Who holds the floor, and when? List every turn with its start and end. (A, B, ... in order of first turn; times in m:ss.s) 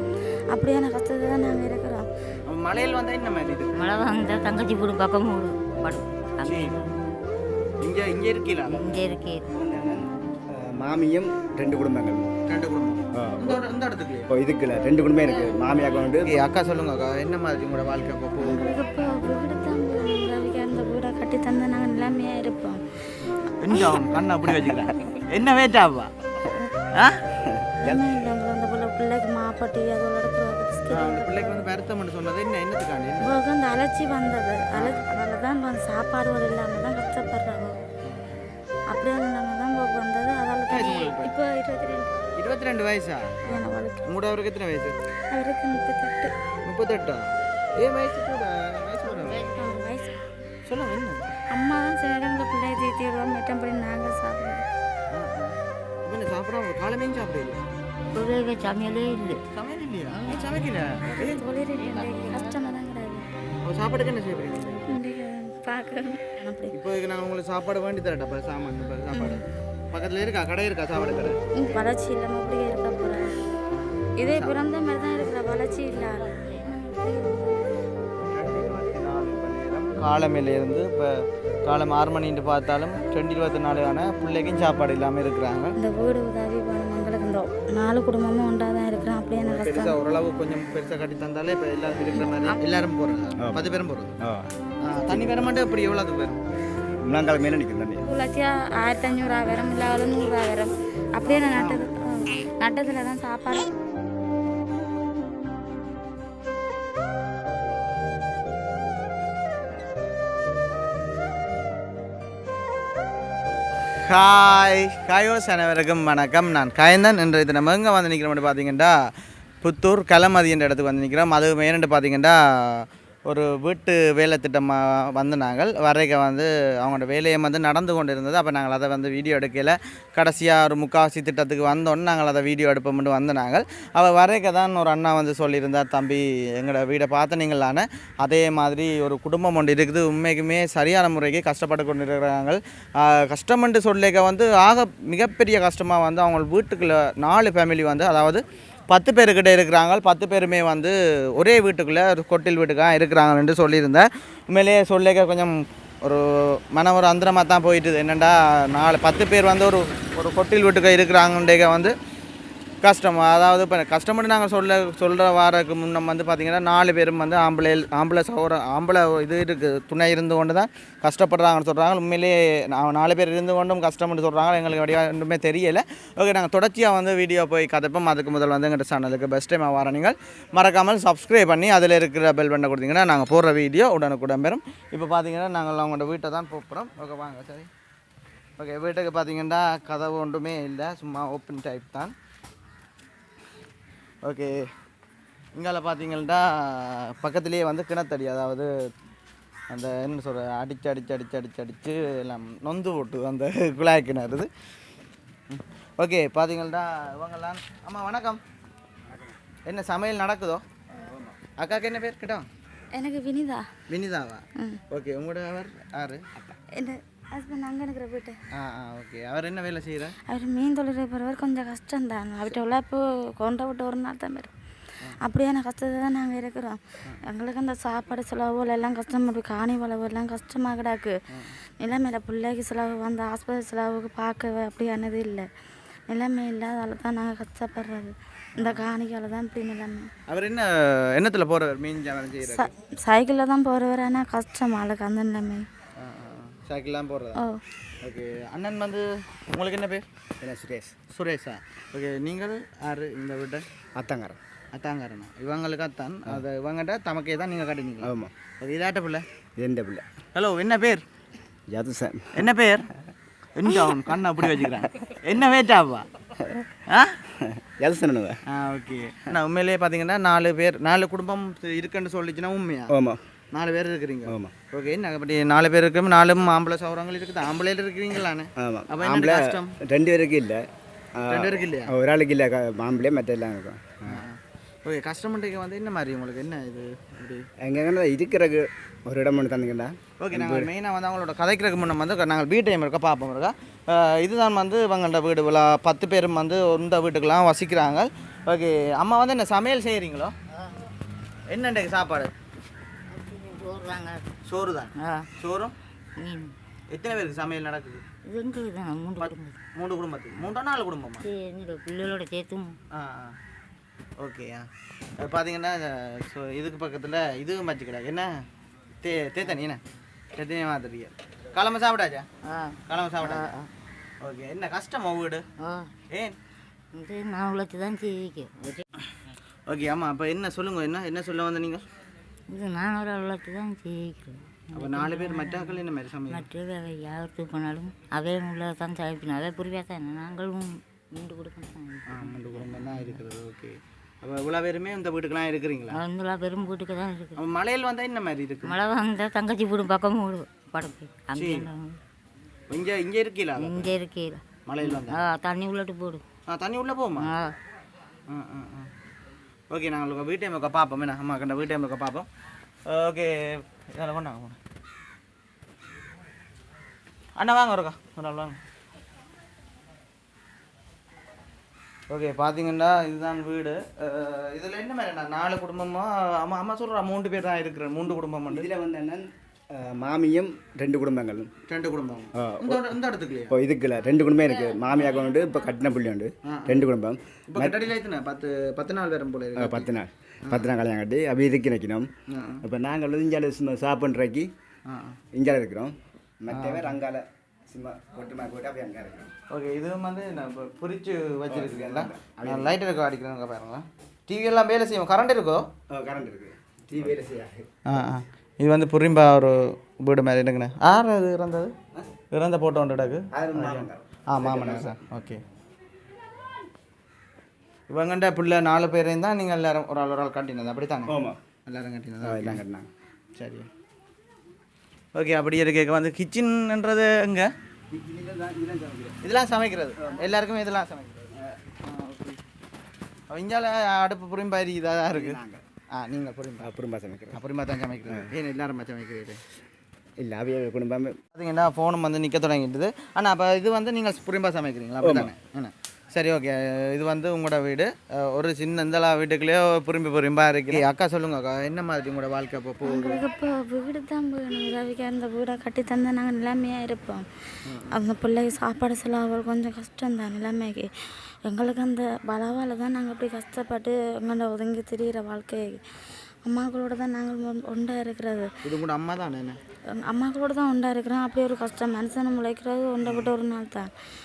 0:00.5-0:02.0 A
0:02.4-0:03.8 B
0:03.7-0:06.9 C
0:06.4-0:06.7 B
0:07.8-0:08.9 B
0:08.7-0:09.4 C
0:09.5-0:12.3 D
0:12.5-0:14.3 B
0:13.2-0:13.6 D
0:14.3-0:16.3 D
0:15.3-0:15.6 C
0:16.2-0:18.7 B
0:18.4-0:22.8 A
0:23.2-0:26.1 B
0:26.9-0:27.2 B
0:27.4-0:28.2 D
0:27.8-0:31.6 A
0:30.9-0:33.4 B
0:33.2-0:37.8 A
0:34.7-0:35.0 B
0:38.9-0:42.1 A
0:40.7-0:41.3 B
0:42.4-0:44.9 B
0:43.5-0:44.0 A
0:45.3-0:46.3 A
0:46.6-0:47.3 B
0:47.8-0:49.4 B
0:49.0-0:49.8 C
0:49.6-0:50.2 A
0:50.7-0:51.4 B
0:51.5-0:54.6 A
0:55.1-0:57.6 B
0:58.1-0:59.4 C
0:59.5-1:01.4 B
1:00.1-1:00.6 C
1:01.0-1:03.3 A
1:01.8-1:02.7 C
1:03.6-1:04.9 B
1:04.9-1:06.7 A
1:06.7-1:11.4 B
1:09.1-1:09.4 A
1:11.5-1:13.4 A
1:14.2-1:17.7 A
1:14.2-1:14.6 B
1:15.8-1:16.8 C
1:18.2-1:25.7 B
1:25.8-1:30.0 A
1:29.4-1:34.2 B
1:33.4-1:35.4 D
1:34.8-1:36.4 B
1:37.0-1:38.0 D
1:38.1-1:43.7 A
1:41.2-1:41.9 B
1:54.1-1:59.0 B
1:59.6-2:41.9 B
2:42.8-3:07.7 B
3:08.6-3:12.1 B
3:14.2-3:14.7 B
3:15.5-3:18.7 B
3:19.7-3:24.5 B
3:25.5-3:28.4 B
3:29.6-3:30.6 B
3:31.0-3:31.4 D
3:31.6-3:32.5 B
3:32.9-3:33.7 A
3:33.9-3:36.2 B
3:36.8-3:38.4 A
3:38.5-3:40.1 B
3:40.3-3:44.5 A
3:45.2-3:51.2 A
3:51.8-3:55.5 A
3:56.1-4:00.1 A
3:58.6-3:58.8 B
4:00.3-4:02.7 B
4:02.4-4:05.6 A
4:06.0-4:07.4 B
4:08.0-4:10.0 B
4:10.4-4:11.0 D
4:11.1-4:13.6 B
4:14.0-4:14.4 D
4:14.7-4:19.2 B
4:18.0-4:18.3 D
4:19.6-4:20.0 D
4:20.3-4:21.0 B
4:21.7-4:22.4 D
4:22.3-4:22.9 B
4:23.6-4:26.1 B
4:26.9-4:27.1 B
4:27.3-4:28.4 D
4:28.5-4:32.9 B
4:32.9-4:33.2 D
4:33.5-4:39.7 B
4:34.2-4:34.5 D
4:38.6-4:40.6 D
4:41.2-4:44.2 D
4:41.3-4:41.9 B
4:44.1-4:47.5 B
4:47.6-4:50.7 D
4:50.2-5:00.3 B
5:00.6-5:00.8 C
5:01.5-5:02.3 B
5:03.1-5:04.2 C
5:04.4-5:05.7 B
5:05.0-5:05.3 C
5:06.2-5:06.5 C
5:06.9-5:08.0 B
5:08.2-5:09.6 C
5:09.2-5:11.2 B
5:11.2-5:12.8 C
5:12.9-5:13.4 B
5:14.2-5:18.4 B
5:19.0-5:19.8 B
5:20.4-5:22.3 B
5:22.4-5:23.5 C
5:22.9-5:23.7 B
5:24.2-5:25.4 B
5:25.6-5:25.9 C
5:26.9-5:28.8 C
5:29.7-5:31.8 B
5:32.5-5:43.2 C
5:34.7-5:36.4 B
5:42.1-5:46.0 B
5:45.9-5:47.4 C
5:47.4-5:48.8 B
5:48.6-5:52.0 C
5:51.4-5:51.7 B
5:52.7-5:53.9 B
5:53.6-5:56.2 C
5:54.6-5:55.2 B
5:56.5-5:57.3 B
5:57.2-5:57.5 C
5:58.3-5:58.9 B
5:59.7-6:02.3 B
6:02.8-6:04.6 B
6:07.4-6:08.6 B
6:12.1-6:18.7 B
6:18.5-6:21.5 D
6:21.7-6:23.6 B
6:22.4-6:23.0 D
6:23.5-6:27.9 D
6:24.2-6:25.7 C
6:26.4-6:26.8 B
6:27.5-6:29.9 B
6:29.6-6:32.1 D
6:32.3-6:32.6 B
6:32.6-6:34.5 D
6:34.9-6:35.2 B
6:35.3-6:39.3 D
6:36.5-6:37.0 B
6:39.5-6:45.7 B
6:41.5-6:42.8 D
6:45.9-6:47.7 D
6:47.9-6:51.7 B
6:52.3-6:55.4 B
6:53.3-6:55.0 D
6:57.9-7:01.1 B
7:01.1-7:01.4 D
7:01.6-7:02.6 B
7:02.2-7:02.9 D
7:03.4-7:03.7 B
7:05.1-7:07.5 B
7:07.9-7:09.2 D
7:09.2-7:12.4 B
7:10.0-7:10.3 D
7:13.3-7:15.4 B
7:15.1-7:15.6 D
7:15.9-7:16.7 B
7:16.6-7:17.4 D
7:17.3-7:19.4 B
7:20.2-7:21.2 D
7:21.3-7:33.2 B
7:25.0-7:25.3 D
7:32.8-7:37.2 A
7:37.6-7:38.0 B
7:37.9-7:40.9 A
7:41.4-7:45.8 A
7:46.4-7:48.5 A
7:48.6-7:49.6 B
7:49.9-7:53.9 A
7:53.0-7:53.3 B